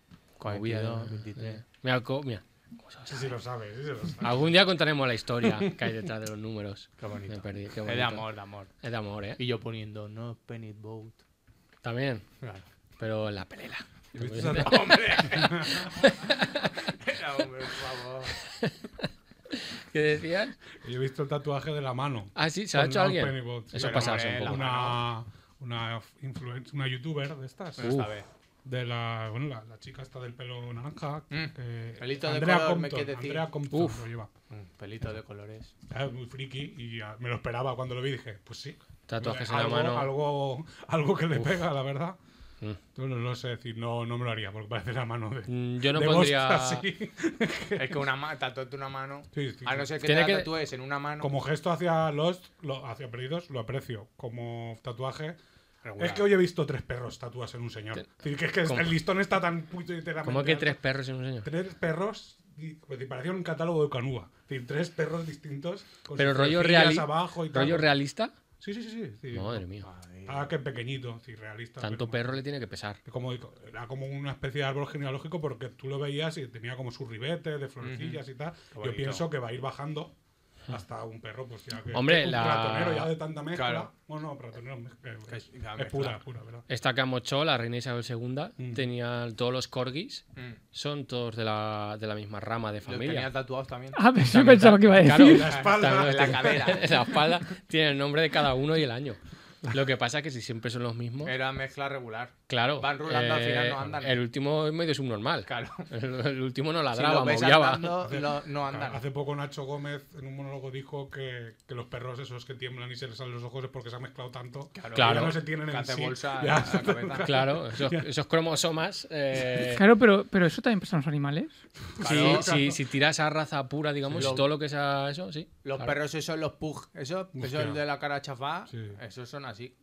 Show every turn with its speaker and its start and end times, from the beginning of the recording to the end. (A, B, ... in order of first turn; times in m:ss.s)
0:00.4-0:01.6 A
0:00.4-0:03.4 B
0:03.1-0:04.6 C
0:04.2-0:08.2 B
0:05.4-0:05.9 C
0:07.0-0:08.7 A
0:08.8-0:09.4 B
0:09.4-0:11.2 A
0:11.8-0:12.2 B
0:13.0-0:15.2 B
0:14.1-0:15.9 C
0:14.4-0:16.1 A
0:15.8-0:16.7 B
0:17.0-0:18.4 A
0:18.6-0:20.6 B
0:20.8-0:28.0 C
0:22.4-0:24.6 B
0:23.8-0:25.0 A
0:27.8-0:28.2 A
0:27.8-0:28.1 B
0:28.6-0:34.3 C
0:31.3-0:33.5 A
0:33.7-0:34.0 B
0:34.5-0:35.7 A
0:35.9-0:42.2 C
0:39.1-0:40.1 B
0:43.0-0:48.0 C
0:45.5-0:46.8 B
0:47.8-0:51.3 A
0:49.3-0:49.9 C
0:50.0-0:50.5 B
0:51.2-0:55.4 C
0:55.8-0:56.3 A
0:56.0-1:00.8 C
0:58.6-0:58.9 B
1:00.2-1:01.5 B
1:01.4-1:07.9 C
1:06.2-1:08.3 B
1:08.6-1:09.6 C
1:09.3-1:09.9 B
1:09.8-1:10.5 A
1:10.2-1:12.4 C
1:11.8-1:13.0 B
1:13.0-1:20.1 C
1:17.8-1:18.2 A
1:18.7-1:19.2 A
1:20.7-1:26.6 C
1:21.9-1:23.1 B
1:23.5-1:23.9 A
1:25.3-1:26.2 A
1:26.7-1:33.3 B
1:28.6-1:28.8 C
1:32.9-1:34.0 A
1:33.9-1:35.5 D
1:34.2-1:41.3 B
1:35.0-1:36.8 C
1:35.5-1:37.1 A
1:41.2-1:44.2 A
1:42.5-1:48.0 B
1:45.5-1:45.9 A
1:46.9-1:49.0 A
1:48.0-1:58.1 C
1:54.8-1:57.3 A
1:55.0-1:55.4 B
1:57.2-1:59.8 B
1:59.7-2:01.6 D
2:02.0-2:02.8 C
2:02.0-2:02.5 A
2:02.0-2:06.0 B
2:04.0-2:04.4 C
2:04.2-2:04.5 A
2:05.6-2:09.7 A
2:07.4-2:07.8 C
2:08.7-2:09.0 C